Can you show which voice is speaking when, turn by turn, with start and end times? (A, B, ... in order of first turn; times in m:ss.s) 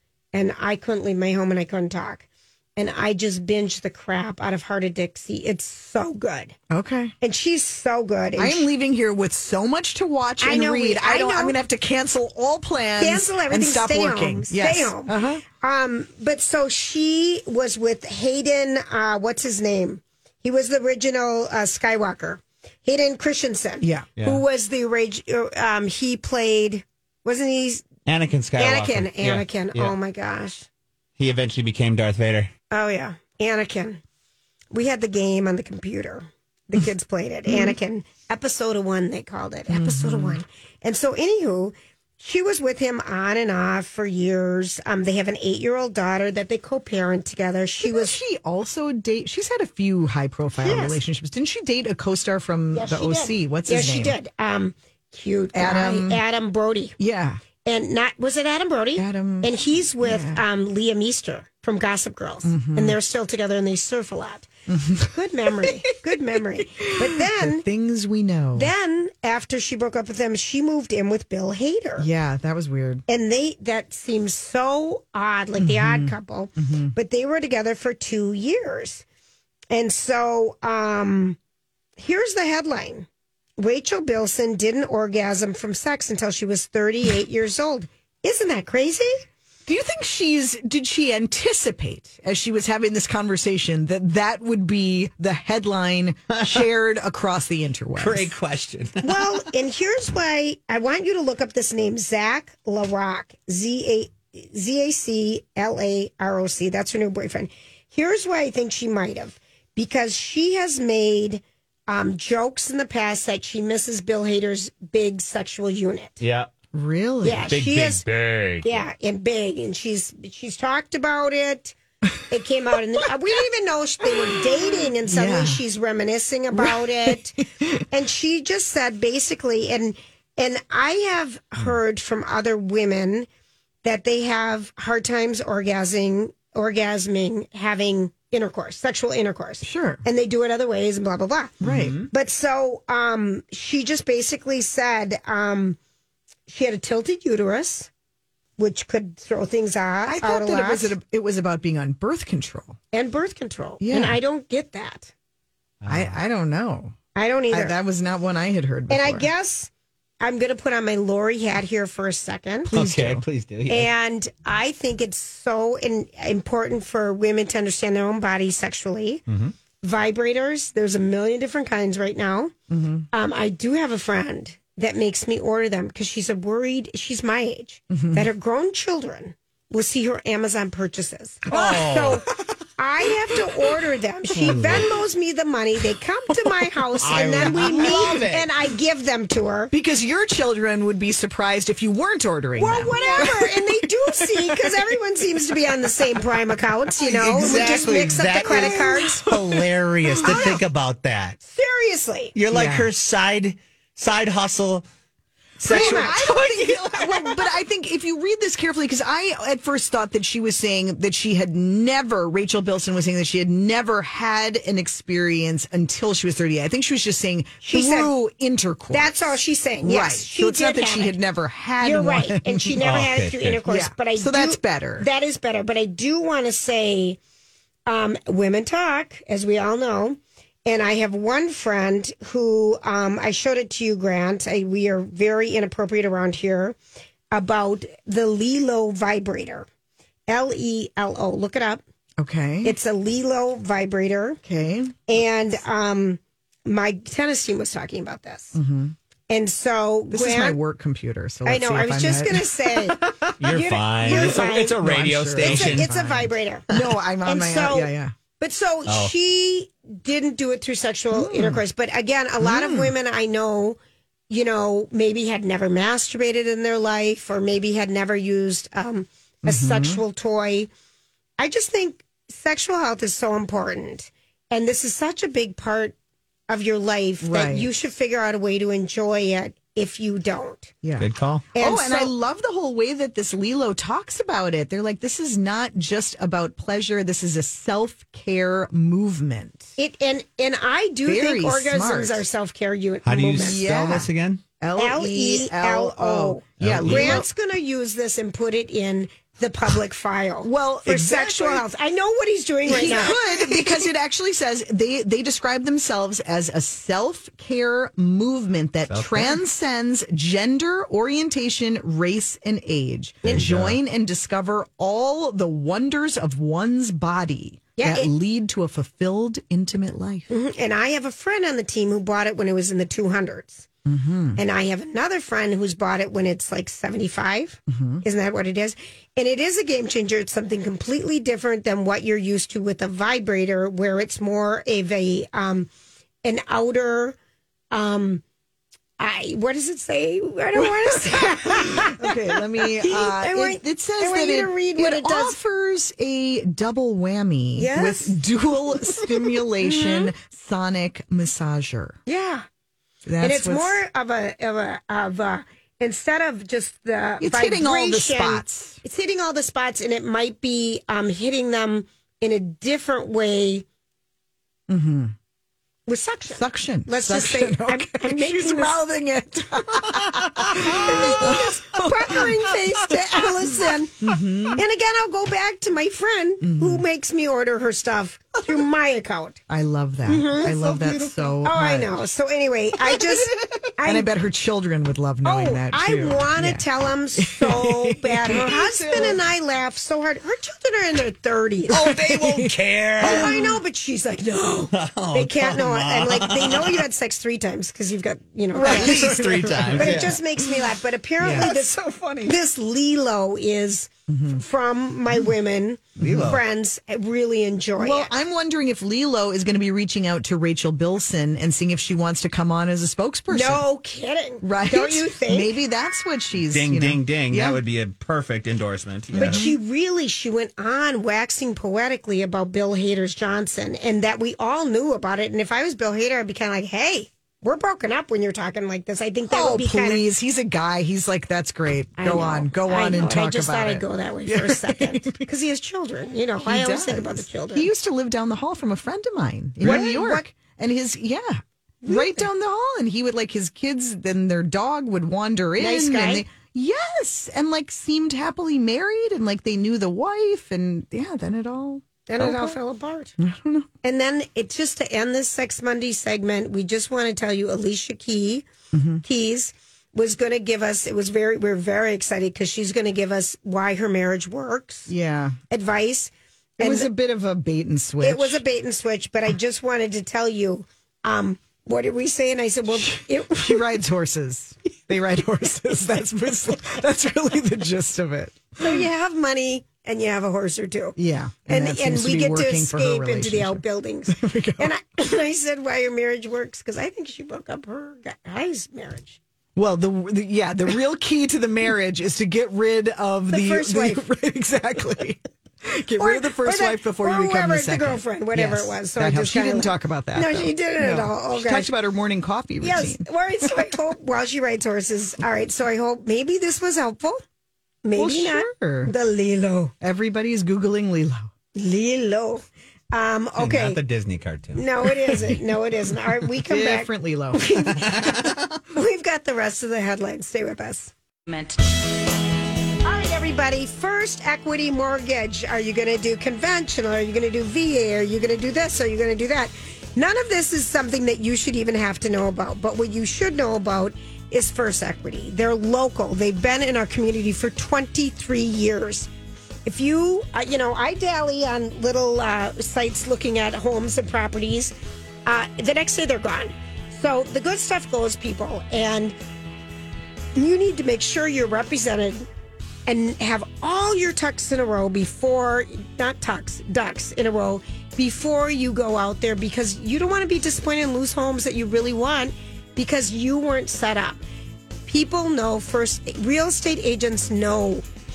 0:00.3-0:06.6 A
0:06.7-0:07.1 B
0:07.2-0:08.7 A
0:08.4-0:15.4 B
0:10.4-0:11.6 A
0:13.0-0:27.8 A
0:23.8-0:24.1 B
0:28.0-0:29.9 C
0:28.6-0:30.6 A
0:31.2-0:32.5 C
0:32.7-0:34.0 A
0:34.7-0:48.2 A
0:37.5-0:37.8 B
0:39.7-0:40.4 B
0:47.8-0:54.2 B
0:50.6-0:51.0 A
0:52.7-0:56.9 A
0:55.5-0:56.2 B
0:57.0-0:57.4 B
0:57.6-1:04.5 A
0:59.0-1:00.4 B
1:02.4-1:03.0 B
1:04.7-1:05.7 B
1:05.0-1:07.6 A
1:06.3-1:08.7 B
1:08.5-1:12.1 A
1:12.0-1:13.0 B
1:13.1-1:19.0 A
1:15.6-1:16.9 B
1:19.7-1:21.4 A
1:22.0-1:23.1 A
1:23.6-1:29.2 A
1:29.6-1:38.3 B
1:36.3-1:36.6 C
1:38.0-1:39.3 C
1:39.0-1:56.2 A
1:56.2-1:56.5 C
1:56.7-1:57.6 B
1:57.2-1:58.0 A
1:57.5-1:58.8 C
1:58.6-2:01.7 A
2:02.3-2:07.4 A
2:05.0-2:05.6 B
2:06.5-2:07.8 B
2:07.9-2:13.3 A
2:13.8-2:21.6 A
2:19.6-2:20.0 B
2:21.6-2:22.0 B
2:21.6-2:22.1 C
2:22.1-2:25.8 A
2:26.5-2:27.9 A
2:28.6-2:30.9 A
2:30.1-2:32.8 B
2:32.9-2:35.1 A
2:33.8-2:34.2 B
2:35.8-2:36.2 C
2:35.9-2:37.0 B
2:37.1-2:37.8 A
2:37.5-2:39.3 B
2:38.9-2:39.7 A
2:40.2-2:42.7 A
2:42.7-2:43.2 B
2:42.7-2:43.9 C
2:43.7-2:49.2 A
2:49.3-2:49.5 C
2:49.8-2:52.5 A
2:52.7-2:53.1 B
2:53.1-3:09.7 A
2:57.9-2:58.3 B
3:01.5-3:02.5 C
3:04.3-3:04.9 B
3:04.4-3:04.9 C
3:07.0-3:08.5 C
3:07.1-3:08.3 B
3:09.7-3:14.9 B
3:12.6-3:19.2 A
3:17.0-3:21.4 C
3:17.1-3:20.6 B
3:20.2-3:20.6 A
3:21.4-3:22.3 A
3:22.3-3:24.8 C
3:22.5-3:22.9 B
3:25.6-3:26.5 C
3:25.6-3:43.1 B
3:25.6-3:27.3 A
3:37.6-3:38.1 A
3:38.9-3:41.2 A
3:41.8-3:47.2 A
3:42.8-3:43.6 C
3:43.6-3:45.1 B
3:47.9-3:56.8 A
3:57.3-3:59.7 A
4:00.3-4:01.8 A
4:02.2-4:02.8 B
4:02.6-4:04.4 A
4:04.4-4:04.9 B
4:05.1-4:08.6 A
4:08.5-4:08.9 B
4:09.3-4:10.6 A
4:10.1-4:13.1 B
4:11.4-4:14.8 A
4:13.3-4:15.9 C
4:14.0-4:18.1 B
4:15.4-4:16.7 A
4:17.2-4:23.8 A
4:18.8-4:19.1 C
4:21.1-4:21.6 B
4:22.4-4:22.9 B
4:24.3-4:30.7 A
4:29.4-4:30.0 B
4:31.4-4:35.9 A
4:36.5-4:40.7 A
4:37.2-4:37.7 B
4:40.8-4:49.7 B
4:41.0-4:41.4 C
4:41.5-4:42.1 A
4:49.8-4:53.6 A
4:51.0-4:52.2 B
4:53.0-4:54.4 C
4:53.3-4:57.3 B
4:54.8-5:03.6 A
4:56.6-4:57.2 C
5:00.4-5:01.7 B
5:02.6-5:20.3 B
5:08.9-5:09.4 C
5:13.2-5:13.8 C
5:17.8-5:18.1 A
5:20.3-5:23.7 A
5:23.8-5:24.4 B
5:24.4-5:35.7 A
5:27.7-5:28.0 B
5:36.2-5:37.2 A
5:37.7-5:38.2 A
5:39.0-5:45.4 A
5:40.5-5:52.0 B
5:47.6-5:48.2 A
5:48.7-5:50.1 A
5:52.0-5:52.4 A
5:53.0-5:53.8 B
5:53.2-6:03.6 A
5:57.2-5:58.8 B
6:04.7-6:05.1 B
6:05.9-6:08.8 A
6:06.3-6:14.6 B
6:10.5-6:19.4 A
6:16.4-6:16.8 B
6:19.5-6:22.0 B
6:20.1-6:24.1 A
6:22.8-6:29.2 B
6:25.2-6:31.9 A
6:31.7-6:33.4 C
6:31.7-6:33.6 B
6:33.0-6:48.1 A
6:34.7-6:36.8 C
6:38.6-6:40.4 B
6:38.6-6:40.2 C
6:41.2-6:42.1 B
6:44.1-6:44.4 B
6:46.0-6:46.4 B
6:46.0-6:46.4 C
6:47.8-6:53.6 B
6:53.3-6:55.6 A
6:54.4-6:57.6 B
6:56.5-6:59.5 C
6:59.1-6:59.6 B
6:59.1-7:10.0 A
7:09.3-7:15.3 B
7:12.0-7:17.7 A
7:16.4-7:32.6 B
7:19.6-7:20.3 A
7:19.6-7:19.9 C
7:21.8-7:22.3 A
7:25.6-7:26.2 A
7:32.1-7:33.1 A
7:33.2-7:33.7 B
7:33.8-7:38.4 A
7:38.7-7:39.0 B
7:39.0-7:44.9 A
7:44.9-7:45.4 B
7:45.5-7:46.9 A
7:46.6-7:48.4 B
7:48.0-7:53.7 A
7:52.7-7:58.9 B
7:58.6-8:01.0 A
8:01.0-8:04.7 B
8:01.5-8:09.2 A
8:09.6-8:23.6 B
8:13.3-8:14.1 A
8:16.0-8:21.7 A
8:22.6-8:27.2 A
8:27.8-8:29.7 A
8:27.9-8:28.9 B
8:29.8-8:31.3 B
8:31.5-8:33.8 A
8:33.4-8:34.6 C
8:34.5-8:38.2 A
8:36.3-8:38.0 B
8:37.7-8:38.6 C
8:38.7-8:40.9 A
8:42.8-8:59.1 A
8:59.6-9:04.7 A
9:05.2-9:09.2 A
9:10.3-9:12.3 A
9:12.8-9:24.2 A
9:24.9-9:27.8 A